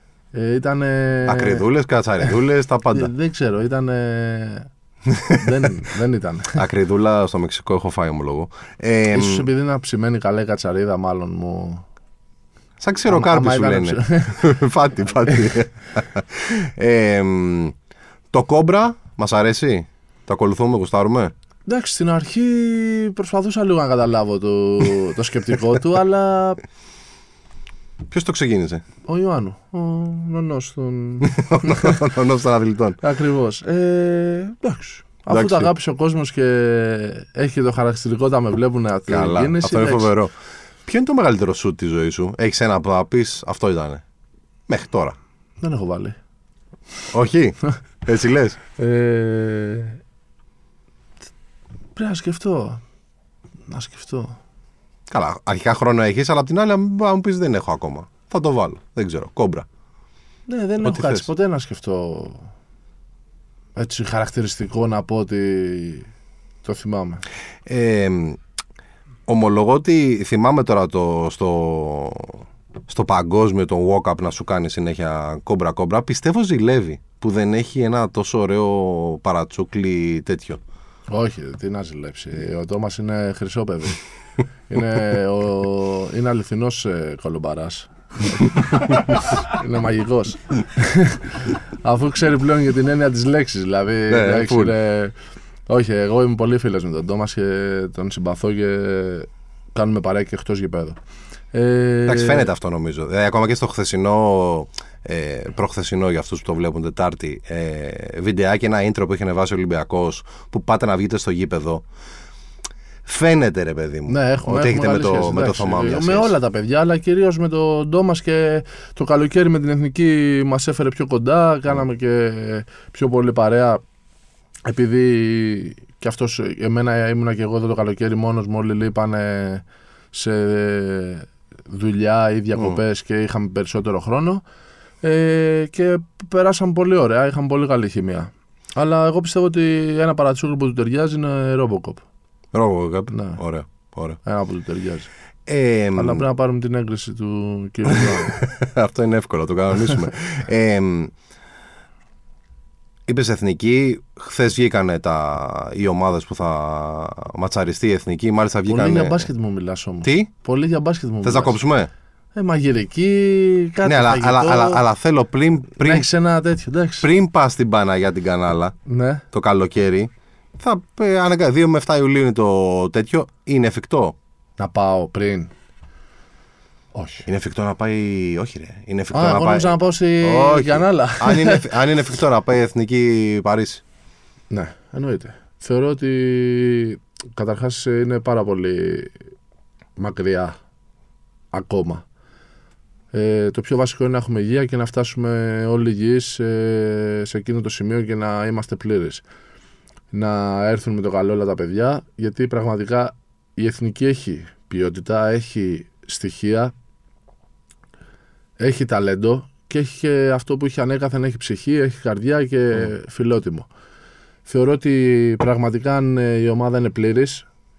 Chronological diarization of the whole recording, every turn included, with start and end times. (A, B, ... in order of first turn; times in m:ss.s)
0:00.3-0:01.6 A
0:01.3-0:03.1 B
0:02.9-0:04.7 A
0:05.1-0:05.5 B
0:05.2-0:06.6 A
0:06.6-0:09.5 B
0:09.1-0:11.8 A
0:12.8-0:17.8 B
0:13.1-0:14.5 A
0:18.3-0:21.3 B
0:21.7-0:26.6 A
0:28.1-0:28.8 B
0:29.1-0:32.0 A
0:31.2-0:33.0 B
0:33.0-0:40.1 A
0:35.3-0:35.7 B
0:39.1-0:40.3 B
0:40.9-0:44.0 B
0:44.7-0:45.2 B
0:45.6-0:46.2 A
0:47.1-0:48.6 B
0:48.8-0:50.0 A
0:52.0-0:52.8 A
0:53.7-0:54.4 A
0:55.1-0:59.7 B
1:00.5-1:02.4 A
1:00.8-1:01.3 B
1:03.8-1:06.1 A
1:06.6-1:07.2 A
1:07.7-1:08.4 B
1:09.3-1:20.6 B
1:21.1-1:24.0 A
1:24.7-1:35.2 A
1:34.1-1:34.8 B
1:35.7-1:41.0 A
1:41.5-1:42.5 A
1:42.1-1:51.8 B
1:53.0-1:56.3 B
1:54.1-2:03.8 A
2:04.7-2:14.4 A
2:15.0-2:22.0 A
2:22.5-2:24.2 B
2:23.1-2:23.4 A
2:24.2-2:25.1 A
2:25.5-2:26.2 B
2:26.0-2:28.4 A
2:27.9-2:31.1 B
2:33.1-2:39.3 B
2:38.7-2:41.6 A
2:40.0-2:40.3 B
2:41.2-2:41.9 B
2:42.4-2:44.8 A
2:43.8-2:46.1 B
2:45.8-2:47.1 A
2:47.0-2:48.8 B
2:48.9-2:49.2 A
2:49.3-2:54.2 B
2:54.6-2:55.5 A
2:56.9-2:57.3 A
2:57.2-3:03.8 B
2:59.1-3:01.7 A
3:04.5-3:09.2 A
3:10.0-3:10.6 A
3:11.5-3:12.0 A
3:13.1-3:19.2 A
3:20.1-3:26.7 A
3:28.6-3:33.7 A
3:34.5-3:37.5 A